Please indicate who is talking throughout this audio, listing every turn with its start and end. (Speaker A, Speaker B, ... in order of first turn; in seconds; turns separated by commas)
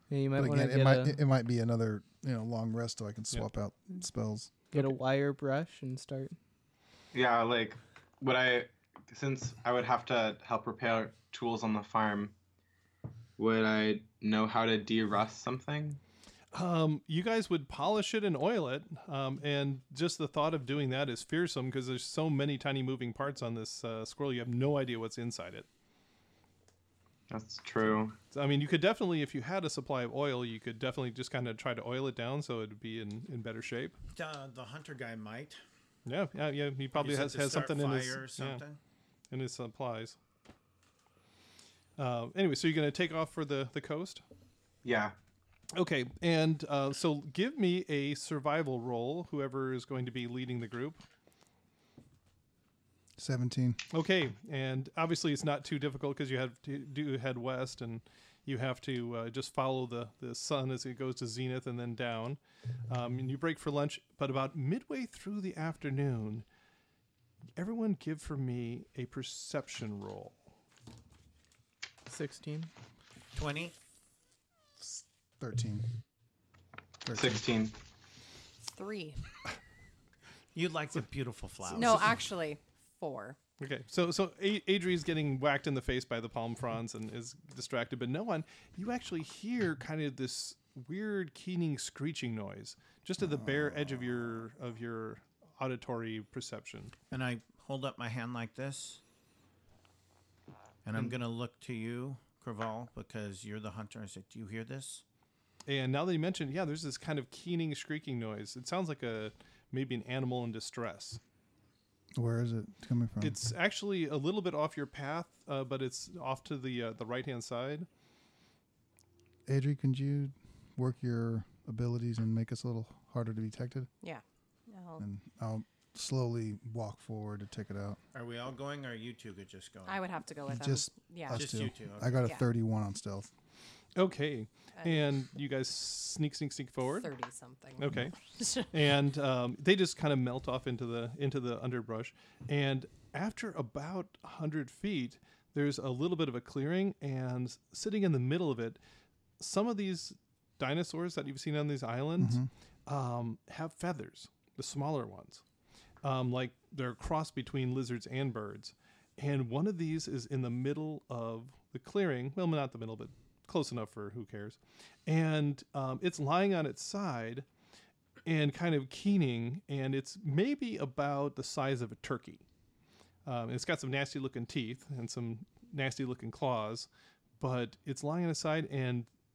Speaker A: 0.1-1.2, Speaker B: 0.4-4.5, Speaker A: 4.7-6.4, Speaker C: 7.1-12.3, Speaker C: 13.4-16.0, Speaker D: 16.5-25.7, Speaker C: 27.3-28.2, Speaker D: 28.3-34.0, Speaker E: 34.1-35.6, Speaker D: 36.1-38.6, Speaker E: 37.0-38.8, Speaker D: 39.3-40.2, Speaker D: 42.0-44.2, Speaker C: 44.8-45.1, Speaker D: 45.7-51.0, Speaker B: 53.2-53.8, Speaker D: 53.9-66.5, Speaker D: 67.6-70.4, Speaker A: 72.1-72.7, Speaker E: 73.3-73.8, Speaker B: 74.8-75.9, Speaker B: 77.0-77.4, Speaker C: 77.1-77.7, Speaker F: 78.7-79.2, Speaker E: 80.5-82.2, Speaker F: 81.7-83.4, Speaker D: 83.6-96.9, Speaker B: 93.2-93.9, Speaker E: 97.1-99.0, Speaker E: 100.8-105.0, Speaker D: 105.7-111.2, Speaker B: 112.2-113.4, Speaker D: 113.2-117.9, Speaker B: 119.5-123.9, Speaker F: 124.0-125.0, Speaker B: 125.0-128.0, Speaker E: 128.1-130.0, Speaker F: 129.9-131.7, Speaker B: 130.5-133.3, Speaker E: 131.3-132.3, Speaker D: 134.0-137.1, Speaker F: 134.8-135.0, Speaker F: 136.9-138.7, Speaker D: 137.8-148.8, Speaker D: 149.4-155.4, Speaker B: 152.2-152.5, Speaker D: 156.0-167.5, Speaker D: 168.3-172.4, Speaker D: 173.3-176.9, Speaker D: 177.4-179.1